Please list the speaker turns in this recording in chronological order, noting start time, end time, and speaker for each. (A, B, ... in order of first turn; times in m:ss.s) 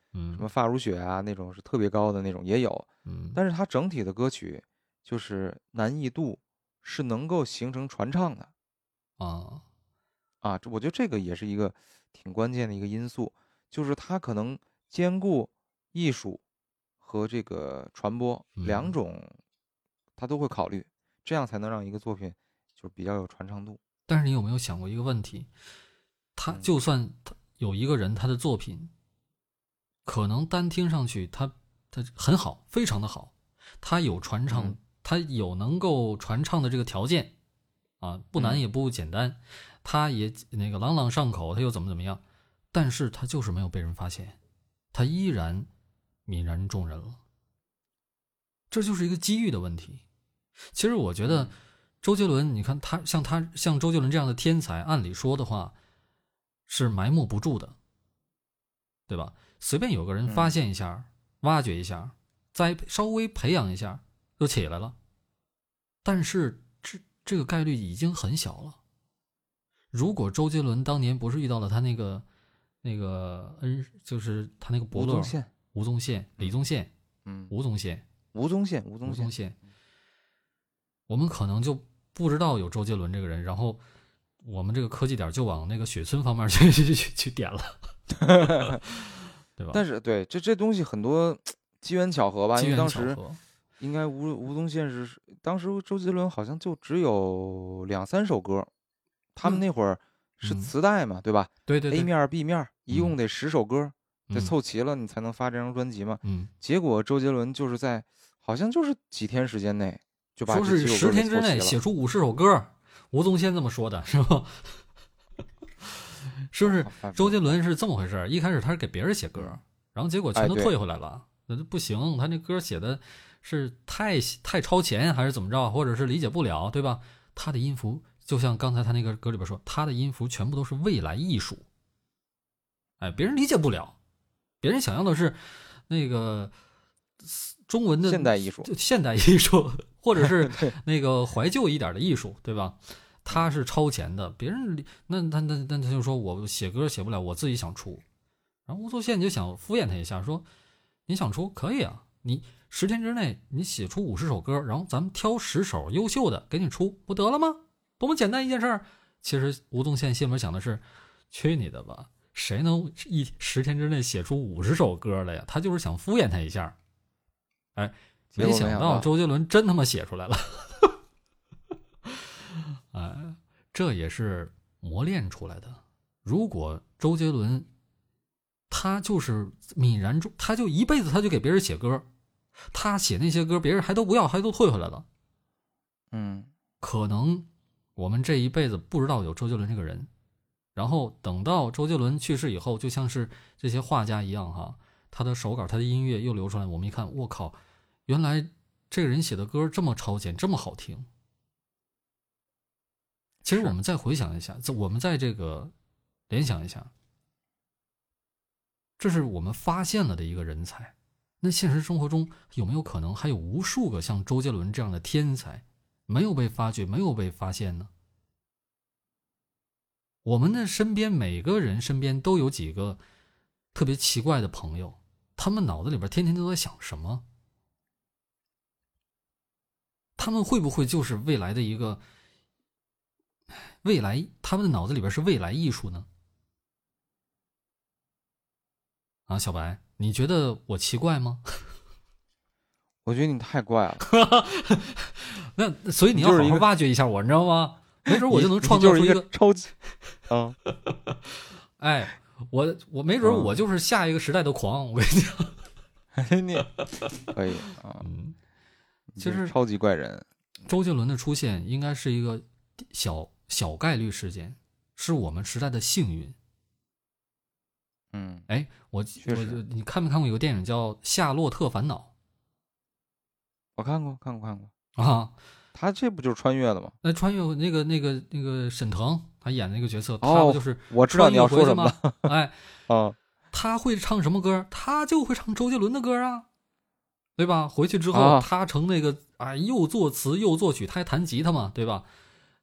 0:00.1-0:00.4 A
0:00.4-0:08.5 B
0:03.1-0:03.4 A
0:09.2-0:09.6 A
0:10.4-0:16.4 B
0:17.0-0:19.3 B
0:18.6-0:18.9 A
0:20.2-0:23.8 B
0:24.1-0:25.5 A
0:26.4-0:28.9 A
0:30.0-0:37.3 A
0:34.5-0:34.8 B
0:38.0-0:44.4 A
0:38.4-0:38.6 B
0:44.9-0:45.7 A
0:46.3-0:47.2 A
0:48.7-0:50.0 A
0:50.7-0:55.7 A
0:51.3-0:51.5 B
0:56.7-0:57.8 A
0:59.1-1:05.0 A
1:00.3-1:00.6 B
1:06.0-1:08.8 A
1:09.9-1:12.2 A
1:12.8-1:16.9 A
1:14.9-1:15.5 B
1:17.3-1:17.5 B
1:17.5-1:18.1 A
1:18.3-1:19.3 B
1:19.0-1:19.6 A
1:21.1-1:23.8 A
1:24.4-1:27.8 A
1:28.2-1:28.8 B
1:28.4-1:29.8 A
1:29.7-1:33.2 B
1:32.6-1:33.4 A
1:33.8-1:38.7 B
1:39.4-1:51.8 B
1:40.4-1:40.7 A
1:41.7-1:42.1 A
1:46.2-1:46.5 A
1:50.5-1:54.8 A
1:56.5-2:11.6 A
1:56.6-1:57.6 B
2:00.4-2:00.7 B
2:13.0-2:14.0 A
2:14.6-2:16.5 A
2:17.2-2:28.0 A
2:18.1-2:18.7 B
2:20.2-2:20.7 B
2:28.7-2:30.4 A
2:31.1-2:46.8 A
2:47.8-2:50.9 A
2:48.3-2:49.1 B
2:52.1-2:57.7 A
2:58.7-3:02.1 A
3:02.7-3:05.1 A
3:06.1-3:06.5 B
3:06.8-3:10.1 A
3:10.8-3:17.6 A
3:18.1-3:21.1 A
3:23.4-3:23.7 B
3:23.4-3:25.7 A
3:26.3-3:26.9 A
3:29.0-3:37.9 A
3:40.2-3:43.0 A
3:43.7-3:47.2 A
3:50.2-3:52.0 A
3:53.6-3:56.1 A
3:59.3-4:01.6 A
4:03.0-4:04.0 B
4:04.0-4:09.3 A
4:06.1-4:06.7 B
4:08.1-4:09.7 B
4:10.3-4:10.6 B
4:10.9-4:15.6 A
4:13.2-4:13.5 B
4:16.2-4:16.7 B
4:17.3-4:18.1 B
4:18.0-4:18.4 A
4:19.1-4:20.3 B
4:19.2-4:19.5 A
4:20.7-4:26.4 A
4:28.1-4:28.5 B
4:28.5-4:32.1 A
4:29.2-4:29.6 B
4:33.8-4:34.7 B
4:35.0-4:35.4 A
4:35.7-4:37.0 B
4:37.0-4:42.6 A
4:40.2-4:42.3 B
4:42.9-4:43.2 B
4:43.5-4:46.4 A
4:47.4-4:52.1 A
4:48.1-4:48.5 B